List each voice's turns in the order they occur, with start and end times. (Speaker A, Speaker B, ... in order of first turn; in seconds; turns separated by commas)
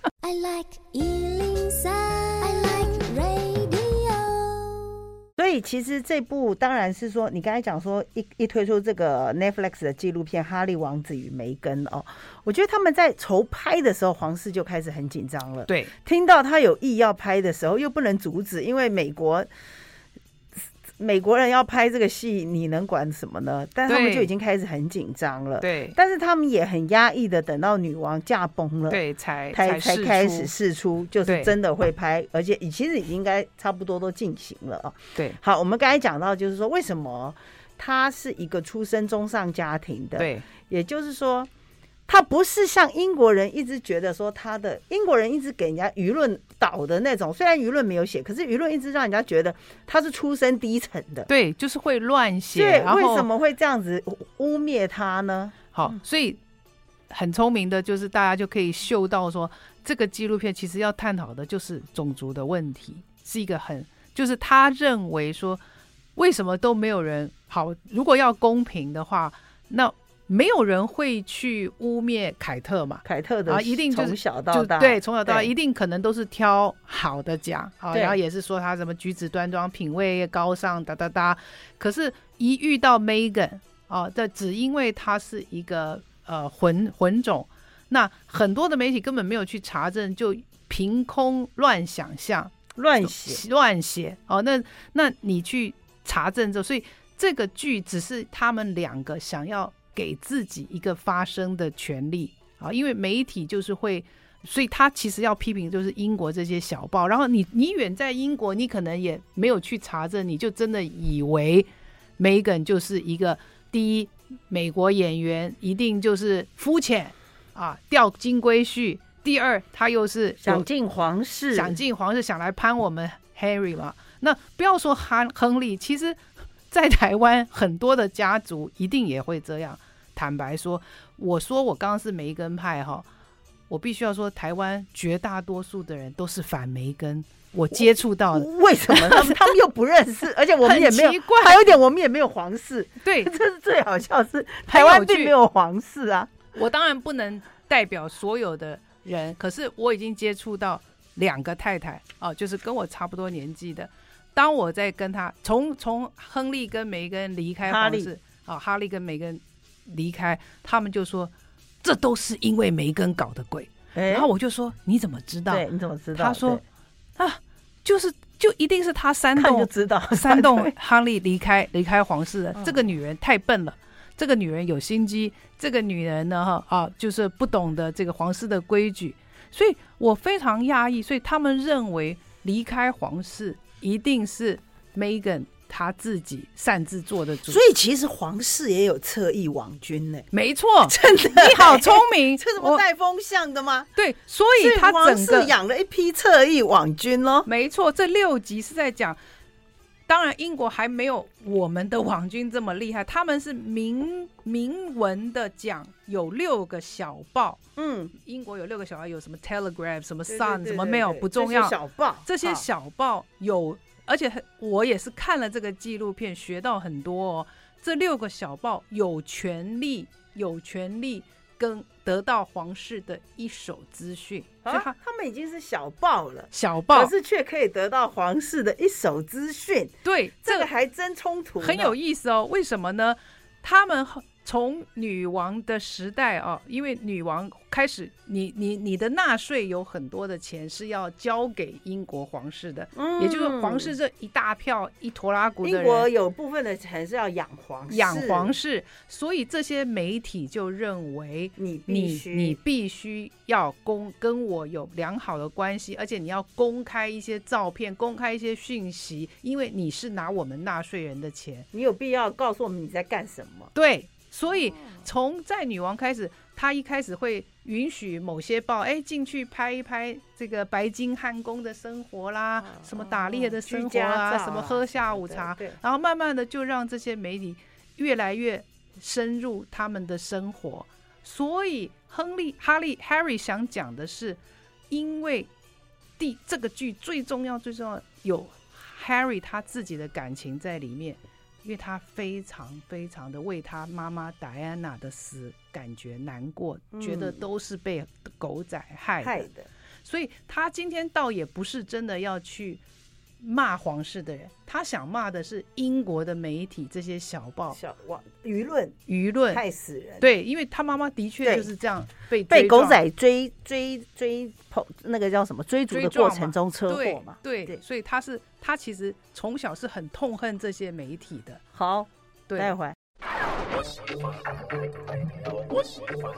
Speaker A: 0.2-5.0, Speaker B: 5.4-19.5, Speaker B: 21.0-29.0, Speaker C: 23.9-24.3, Speaker C: 25.6-25.9, Speaker C: 28.9-30.5, Speaker B: 29.5-41.5, Speaker C: 31.2-31.5, Speaker C: 40.2-40.5, Speaker B: 42.1-51.3, Speaker C: 51.3-53.3, Speaker B: 52.5-55.7, Speaker C: 55.7-56.4, Speaker C: 57.1-65.6, Speaker C: 66.2-120.7, Speaker B: 73.0-75.5, Speaker B: 77.9-78.2, Speaker B: 92.7-93.4, Speaker B: 120.4-121.8, Speaker C: 121.5-133.1, Speaker C: 133.7-139.5, Speaker B: 137.8-146.4, Speaker C: 140.6-141.8, Speaker C: 143.0-143.3, Speaker C: 144.7-145.3, Speaker C: 146.5-161.3, Speaker B: 157.6-158.1, Speaker C: 161.8-166.6, Speaker B: 163.9-164.3, Speaker B: 165.5-166.6, Speaker C: 167.2-187.6, Speaker B: 169.3-170.7, Speaker B: 187.5-190.3, Speaker C: 190.3-192.8, Speaker B: 190.8-193.9, Speaker C: 193.9-195.5, Speaker B: 194.6-197.5, Speaker C: 197.4-199.2, Speaker C: 200.1-207.6, Speaker B: 207.8-208.1, Speaker C: 208.2-224.9, Speaker B: 210.3-212.6, Speaker B: 224.6-231.9, Speaker C: 226.5-227.1, Speaker C: 230.0-230.7, Speaker C: 231.6-246.1, Speaker B: 242.9-243.9, Speaker B: 245.6-248.5, Speaker C: 247.9-261.7, Speaker B: 251.6-252.6, Speaker B: 261.7-263.7, Speaker C: 263.7-284.4, Speaker B: 272.7-275.8, Speaker C: 284.9-285.5, Speaker C: 286.2-299.4, Speaker B: 296.9-297.4, Speaker B: 299.2-299.7, Speaker C: 300.0-302.8, Speaker C: 303.4-307.8, Speaker B: 307.7-309.0, Speaker C: 309.1-309.6, Speaker B: 309.5-310.3, Speaker C: 310.2-313.0, Speaker B: 311.4-311.7, Speaker B: 312.5-317.8, Speaker C: 315.9-321.6, Speaker B: 321.7-322.9